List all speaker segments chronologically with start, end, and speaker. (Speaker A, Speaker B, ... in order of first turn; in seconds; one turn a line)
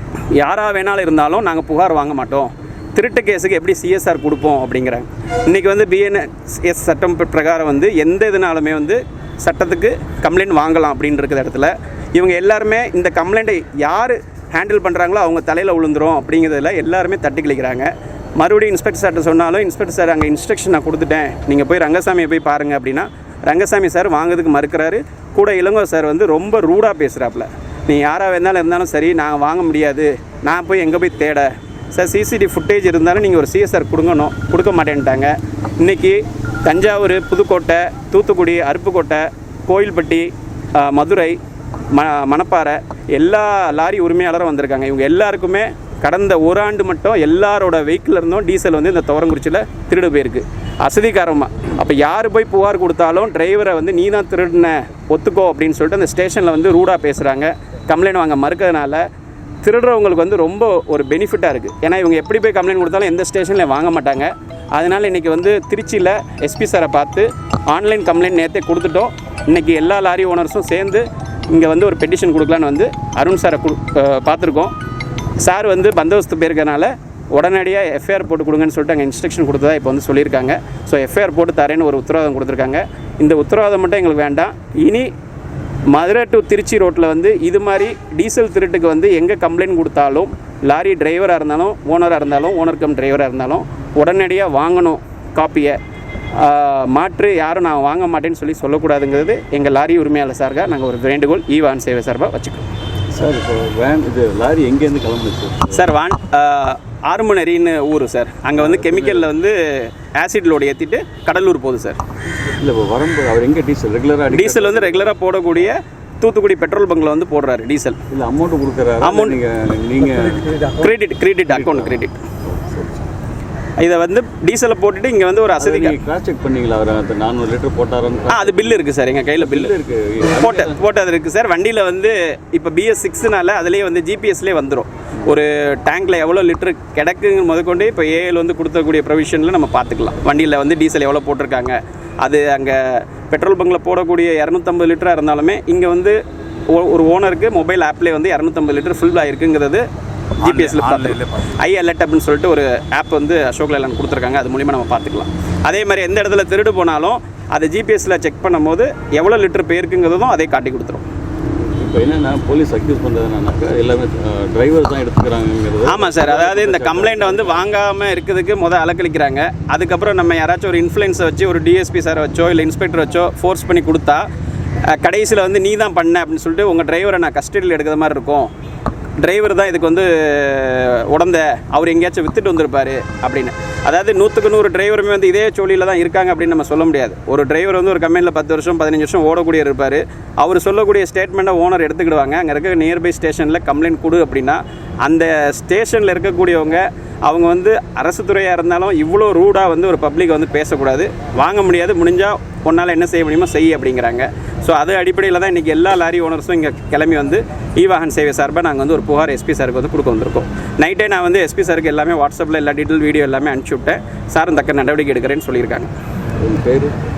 Speaker A: 0.3-41.4
Speaker A: 41.9-59.0
Speaker A: 59.6-74.7
Speaker A: 75.4-85.1
Speaker A: 85.9-95.8
Speaker A: 96.4-102.7
Speaker B: 103.1-105.8
Speaker A: 105.7-112.0
Speaker B: 108.5-109.3
Speaker B: 112.6-115.1
Speaker A: 114.3-118.0
Speaker B: 118.1-120.6
Speaker A: 119.0-119.4
Speaker A: 120.8-122.2
Speaker B: 121.5-122.0
Speaker B: 122.5-123.1
Speaker A: 123.8-126.0
Speaker B: 125.6-128.8
Speaker A: 128.3-129.7
Speaker B: 129.4-130.8
Speaker A: 130.4-146.2
Speaker A: 146.7-149.8
Speaker A: 150.4-161.1
Speaker B: 161.8-167.7
Speaker A: 165.9-174.2
Speaker A: 174.9-178.5
Speaker A: 179.2-215.9
Speaker B: 216.4-217.0